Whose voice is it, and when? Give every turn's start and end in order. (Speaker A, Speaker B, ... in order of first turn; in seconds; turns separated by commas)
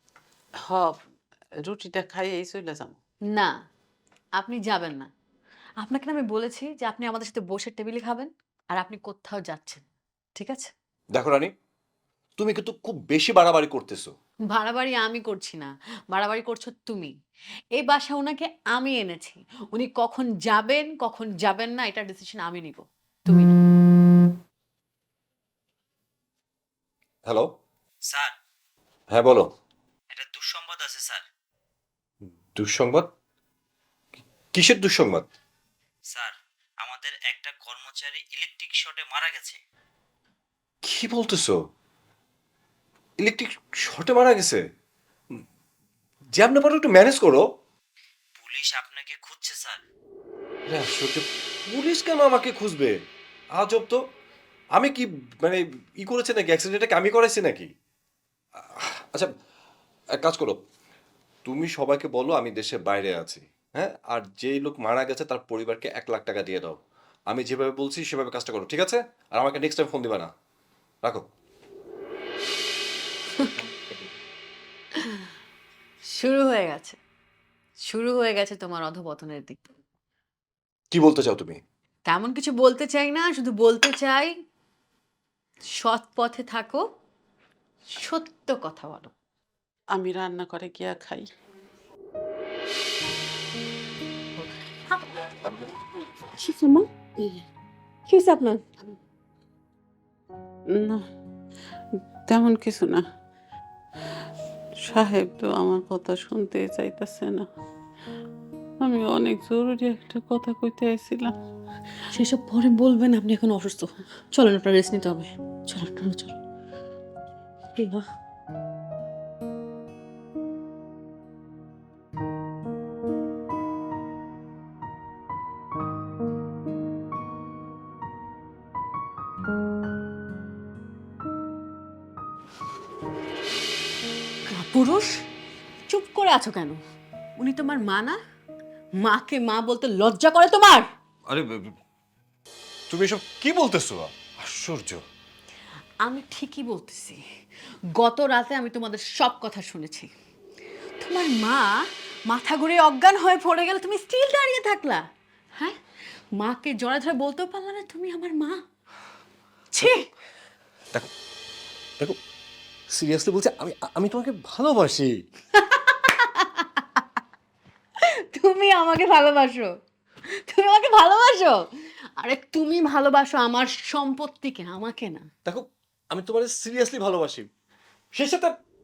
Speaker A: 0.7-1.0, Speaker A: 1.6-3.0, Speaker B: 4.4-5.1, Speaker B: 5.8-10.7, Speaker C: 11.1-11.5, Speaker C: 12.4-14.1, Speaker B: 14.5-17.1, Speaker B: 17.8-23.5, Speaker C: 27.2-27.6, Speaker D: 28.1-28.4, Speaker C: 29.1-29.5, Speaker D: 30.1-31.2, Speaker C: 32.5-33.1, Speaker C: 34.5-35.3, Speaker D: 36.1-39.6, Speaker C: 40.8-41.6, Speaker C: 43.2-44.6, Speaker C: 46.3-47.5, Speaker D: 48.4-49.8, Speaker C: 50.7-53.0, Speaker C: 53.5-54.0, Speaker C: 54.7-57.7, Speaker C: 58.7-59.3, Speaker C: 60.1-60.6, Speaker C: 61.5-70.3, Speaker B: 75.0-75.3, Speaker B: 76.1-77.0, Speaker B: 77.9-79.6, Speaker C: 80.9-81.6, Speaker B: 82.1-84.3, Speaker B: 85.8-86.8, Speaker B: 87.9-89.1, Speaker A: 89.9-91.3, Speaker B: 94.4-95.3, Speaker A: 96.4-96.9, Speaker B: 98.1-98.6, Speaker A: 100.7-101.0, Speaker A: 102.3-103.0, Speaker A: 104.8-107.5, Speaker A: 108.8-111.4, Speaker B: 112.1-116.3, Speaker B: 117.8-118.0, Speaker B: 134.5-135.1, Speaker B: 135.9-136.8, Speaker B: 137.4-138.2, Speaker B: 139.0-140.9, Speaker C: 141.3-141.7, Speaker C: 142.9-145.0, Speaker B: 146.1-147.2, Speaker B: 148.0-150.1, Speaker B: 151.0-155.0, Speaker B: 156.4-158.6, Speaker B: 159.7-160.1, Speaker C: 162.9-165.3, Speaker B: 165.6-167.0, Speaker B: 168.2-169.8, Speaker B: 170.5-175.3, Speaker C: 175.4-177.5, Speaker C: 178.1-178.6